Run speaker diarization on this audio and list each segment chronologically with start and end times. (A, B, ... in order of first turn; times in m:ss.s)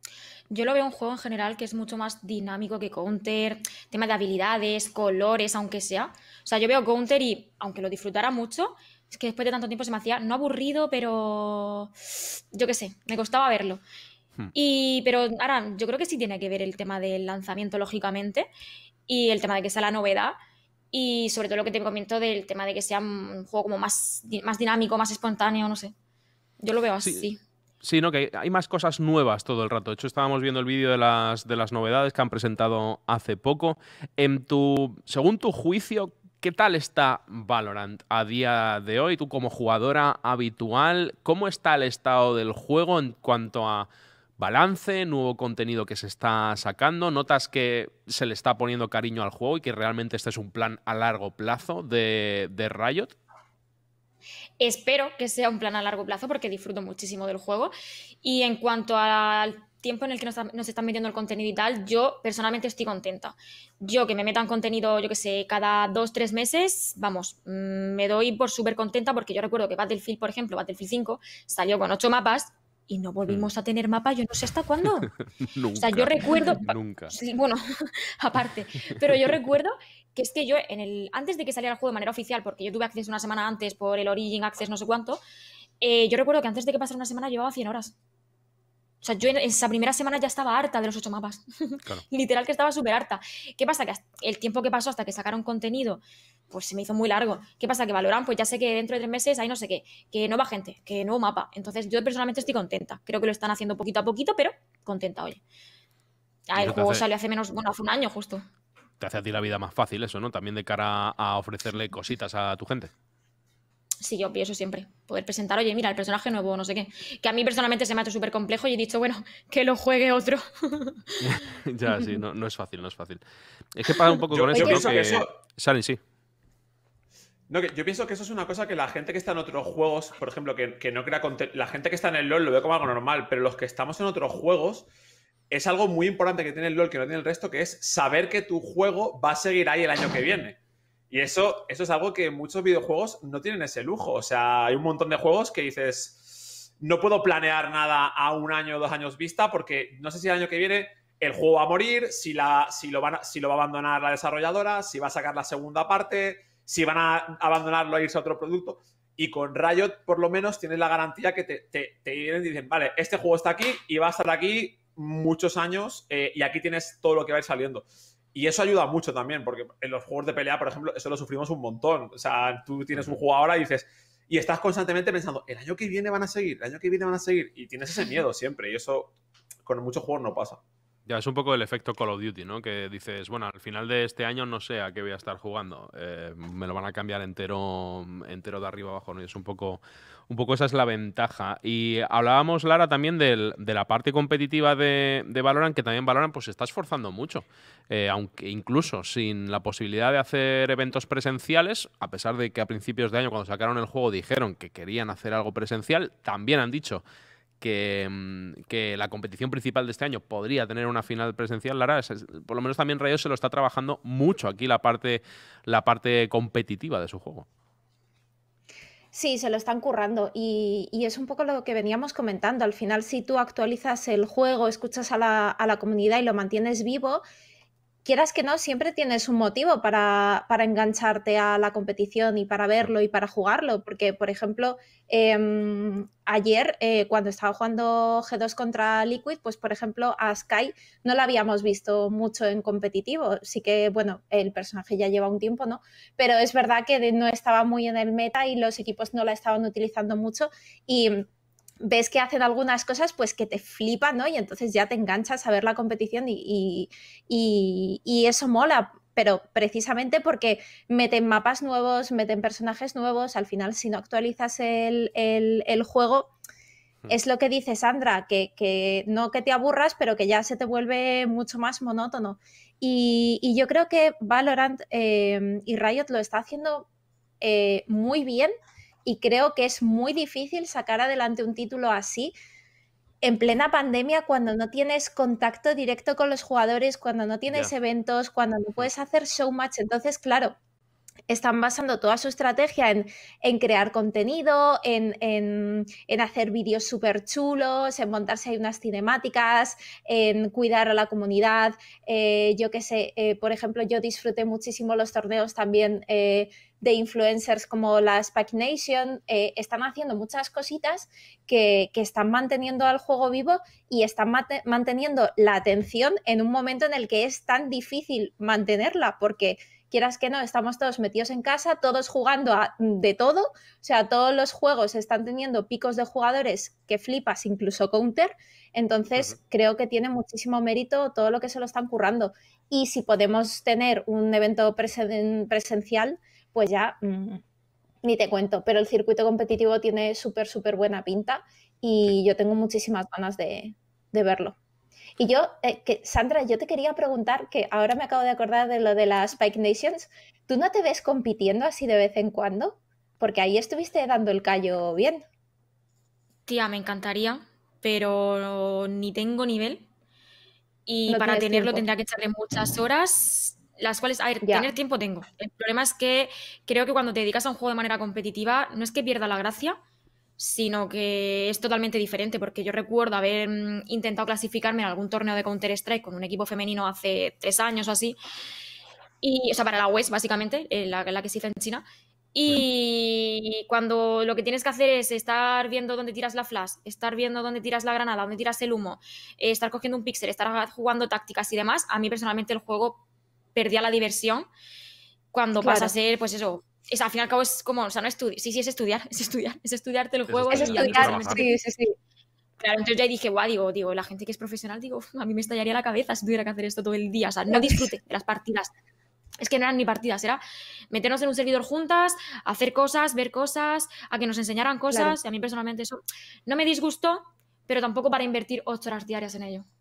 0:00.5-0:13.8 A
0:14.5-0:18.5 A
0:19.1-0:20.4 A
0:20.9-0:25.9 A
0:26.6-0:27.4 A
0:27.0-0:27.3 B
0:27.8-0:43.9 B
0:44.4-0:53.1 B
0:54.6-1:15.1 A
1:15.4-1:17.1 B
1:15.7-1:25.2 A
1:19.0-1:19.3 B
1:25.8-1:27.9 A
1:29.0-1:45.4 A
1:46.5-1:48.4 A
1:46.5-1:47.0 B
1:49.0-1:52.9 B
1:54.0-2:01.3 A
2:01.2-2:03.2 B
2:03.7-2:06.0 B
2:04.3-2:05.3 C
2:04.6-2:04.9 D
2:07.5-2:14.9 C
2:15.5-2:20.6 C
2:21.1-3:00.6 C
3:01.1-3:27.0 B
3:27.6-3:37.4 B
3:39.1-3:47.2 D
3:48.0-4:11.3 D
4:11.8-4:26.3 D
4:27.1-4:36.9 D
4:37.4-4:38.5 D
4:39.0-4:42.3 D
4:43.2-4:50.6 D
4:51.3-5:37.4 D
5:38.0-5:44.6 D
5:45.2-5:55.2 D
5:56.5-5:59.8 A
6:00.8-6:09.8 A
6:01.1-6:01.8 D
6:04.4-6:04.7 D
6:10.4-6:18.2 A
6:19.2-6:33.0 A
6:33.5-6:34.5 A
6:35.3-6:41.5 A
6:35.6-6:35.9 D
6:40.3-6:41.5 B
6:40.5-6:41.9 D
6:42.6-6:48.7 A
6:47.5-6:47.9 D
6:49.4-6:59.6 A
6:54.9-6:55.2 D